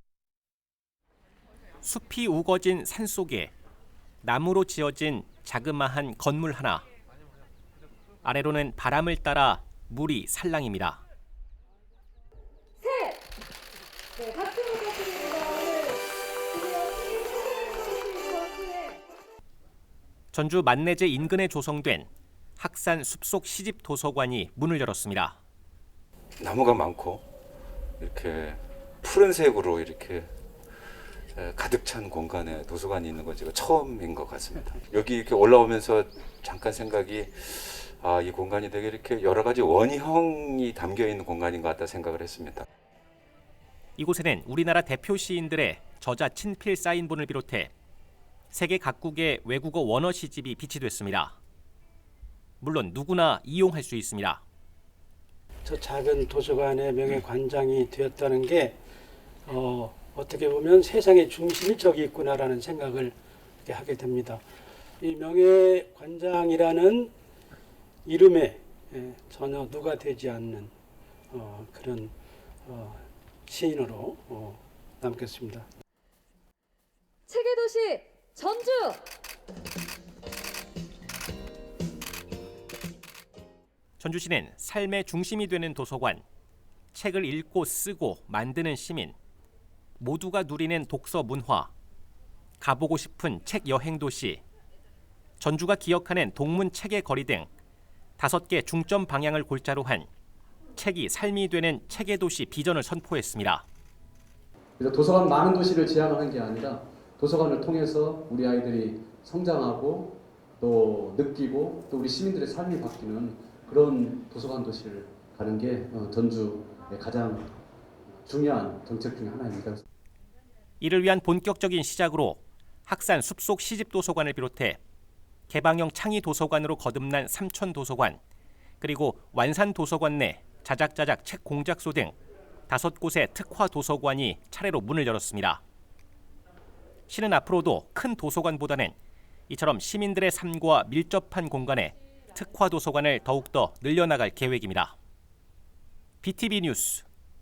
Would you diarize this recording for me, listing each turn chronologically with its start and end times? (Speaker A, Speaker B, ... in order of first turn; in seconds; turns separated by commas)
Speaker A: 1.8-3.5, Speaker A: 4.2-6.8, Speaker A: 8.2-11.0, Speaker B: 12.8-13.2, Speaker B: 14.2-19.0, Speaker A: 20.3-25.4, Speaker C: 26.4-27.2, Speaker C: 28.0-30.3, Speaker C: 31.3-42.6, Speaker A: 44.0-47.7, Speaker A: 48.5-51.4, Speaker A: 52.6-54.4, Speaker D: 55.6-58.8, Speaker D: 59.5-64.4, Speaker D: 65.0-67.1, Speaker D: 68.0-70.7, Speaker D: 71.3-72.1, Speaker D: 72.6-75.7, Speaker B: 77.3-79.0, Speaker A: 84.0-86.2, Speaker A: 86.9-89.2, Speaker A: 90.0-91.7, Speaker A: 92.6-94.4, Speaker A: 95.4-97.5, Speaker A: 98.2-100.1, Speaker A: 100.8-103.6, Speaker E: 104.8-117.5, Speaker E: 118.1-119.8, Speaker A: 120.8-124.8, Speaker A: 125.5-128.2, Speaker A: 128.8-132.2, Speaker A: 132.7-135.6, Speaker A: 137.1-138.9, Speaker A: 139.5-144.9, Speaker A: 146.2-147.0